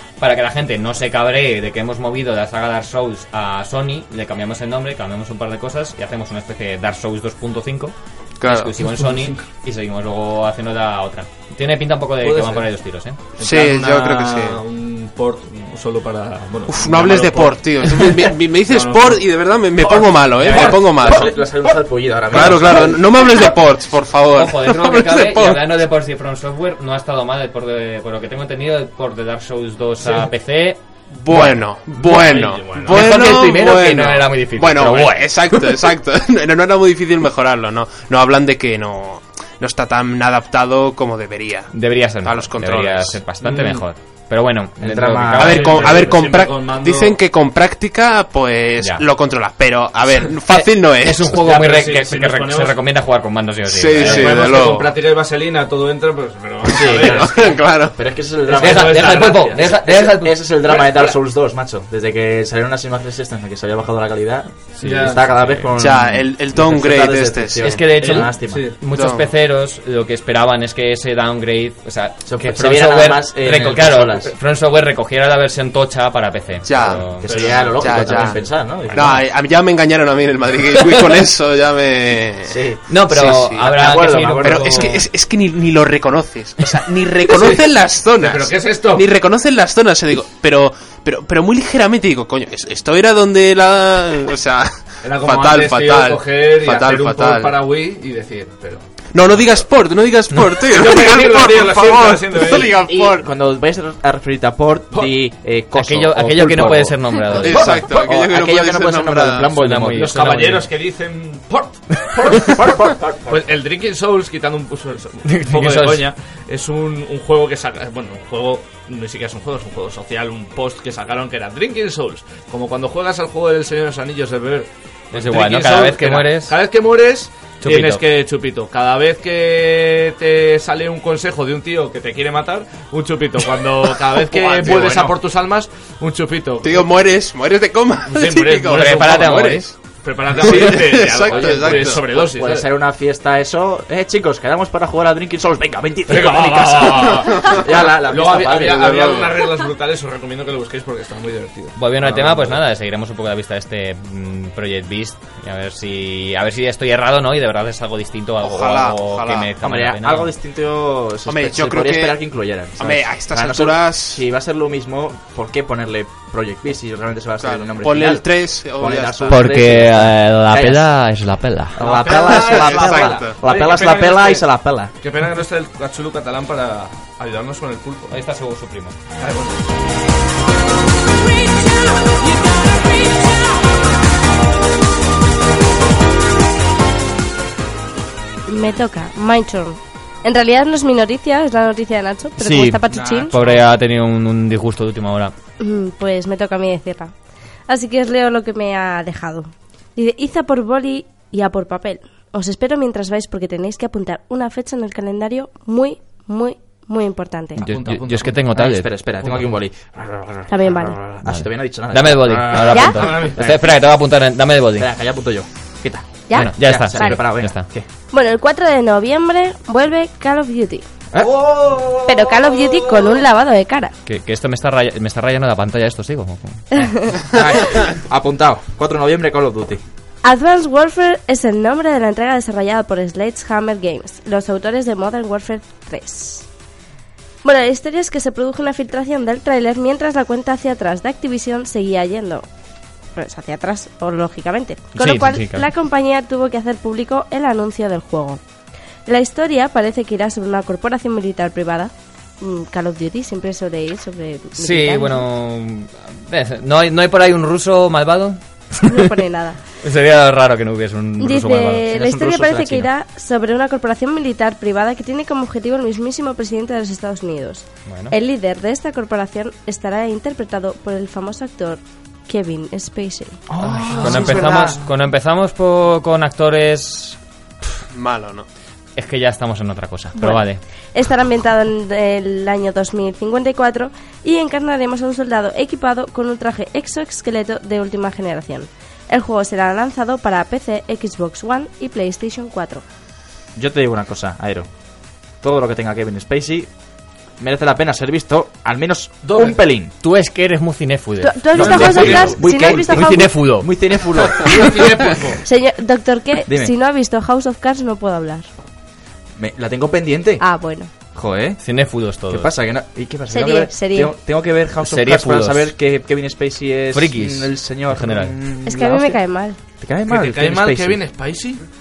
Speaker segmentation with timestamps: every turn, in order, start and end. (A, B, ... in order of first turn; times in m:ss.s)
0:00.2-0:13.2 A
0:08.4-0:08.7 B
0:08.8-0:09.4 C
0:12.2-0:12.7 C
0:13.4-0:21.3 C
0:13.4-0:14.6 B
0:16.7-0:21.4 B
0:20.4-0:20.7 A
0:20.6-0:23.6 D
0:22.3-0:25.6 B
0:24.3-0:32.2 A
0:30.0-0:30.3 C
0:31.1-0:43.2 B
0:31.9-0:33.3 C
0:32.8-0:35.8 A
0:41.7-0:46.0 A
0:43.4-0:43.8 C
0:44.8-0:46.0 D
0:45.4-0:51.4 B
0:45.4-0:47.2 C
0:48.8-0:49.0 A
0:50.5-0:54.4 A
0:51.3-0:52.8 C
0:53.7-0:54.9 B
0:54.0-0:57.6 C
0:56.7-1:08.7 D
0:56.8-0:58.0 B
0:58.5-0:59.7 C
0:58.6-1:00.4 A
1:00.6-1:01.2 C
1:04.8-1:05.7 A
1:04.8-1:05.2 C
1:05.8-1:07.8 B
1:07.6-1:17.2 A
1:08.0-1:08.8 C
1:08.9-1:09.3 B
1:12.2-1:14.3 D
1:16.6-1:37.6 B
1:17.0-1:19.2 D
1:17.2-1:18.2 C
1:22.5-1:25.0 D
1:22.9-1:25.0 A
1:27.3-1:29.1 C
1:35.0-1:39.6 C
1:39.1-1:43.3 B
1:40.7-1:42.8 C
1:42.9-1:50.2 D
1:45.7-1:47.7 A
1:47.3-1:49.5 B
1:47.5-1:47.8 C
1:49.5-1:50.7 A
1:49.9-2:17.0 C
1:52.7-1:53.5 D
1:55.3-1:56.1 A
2:05.1-2:06.6 A
2:07.6-2:08.0 A
2:14.3-2:15.1 D
2:16.6-2:19.7 B
2:18.1-2:19.3 C
2:18.7-2:19.7 A
2:20.0-2:22.7 C
2:20.4-2:22.1 B
2:21.3-2:29.3 D
2:26.1-2:32.6 C
2:28.8-2:29.3 B
2:31.8-2:40.3 A
2:38.4-2:39.5 B
2:39.6-2:50.9 D
2:41.3-2:42.2 B
2:42.8-2:44.2 B
2:47.4-2:49.6 B
2:49.3-2:51.8 A
2:51.8-2:54.9 D
2:51.8-2:54.5 C
2:52.1-2:53.4 B
2:55.0-2:58.2 C
2:58.1-2:59.0 A
2:59.2-2:59.6 C
3:08.5-3:13.4 E
3:12.4-3:15.3 A
3:12.9-3:13.6 C
3:15.6-3:17.1 E
3:17.7-3:27.6 E
3:27.6-3:28.9 A
3:27.7-3:28.3 C
3:28.5-3:33.7 D
3:29.2-3:29.6 C
3:30.5-3:31.0 E
3:31.2-3:34.9 A
3:32.3-3:33.5 C
3:32.7-3:33.0 E
3:34.8-3:37.9 D
3:36.3-3:37.3 E
3:36.3-3:37.7 A
3:38.1-3:40.9 E
3:41.1-3:41.5 D
3:41.2-3:43.2 C
3:42.0-3:43.9 E
3:44.1-3:46.9 A
3:46.7-3:47.2 E
3:47.3-3:49.8 D
3:50.2-3:56.5 E
3:57.4-4:02.4 E
4:03.2-4:08.4 E
4:05.0-4:05.7 A
4:09.1-4:15.3 E
4:14.6-4:19.0 A
4:18.8-4:19.6 E
4:19.8-4:21.8 A
4:21.2-4:33.4 E
4:21.9-4:22.9 D
4:27.9-4:28.2 A
4:33.5-4:34.8 D
4:33.6-4:37.2 A
4:33.9-4:34.7 C
4:37.9-4:38.5 B
4:39.0-4:40.6 A
4:40.2-4:52.8 E
4:53.6-4:54.7 D
4:55.4-4:56.7 D
4:57.4-4:59.9 D
4:59.2-4:59.6 C
5:00.0-5:03.7 A
5:01.2-5:03.4 E
5:01.5-5:04.8 D
5:01.8-5:02.3 C
5:04.4-5:05.4 C
5:05.4-5:08.5 E
5:06.5-5:06.7 D
5:09.4-5:10.4 D
5:10.4-5:10.9 E
5:11.1-5:11.6 D
5:11.6-5:12.5 A
5:12.3-5:19.2 D
5:13.3-5:14.2 E
5:14.8-5:15.8 A
5:16.9-5:18.3 A
5:18.6-5:19.6 E
5:19.8-5:21.0 D
5:20.1-5:21.6 C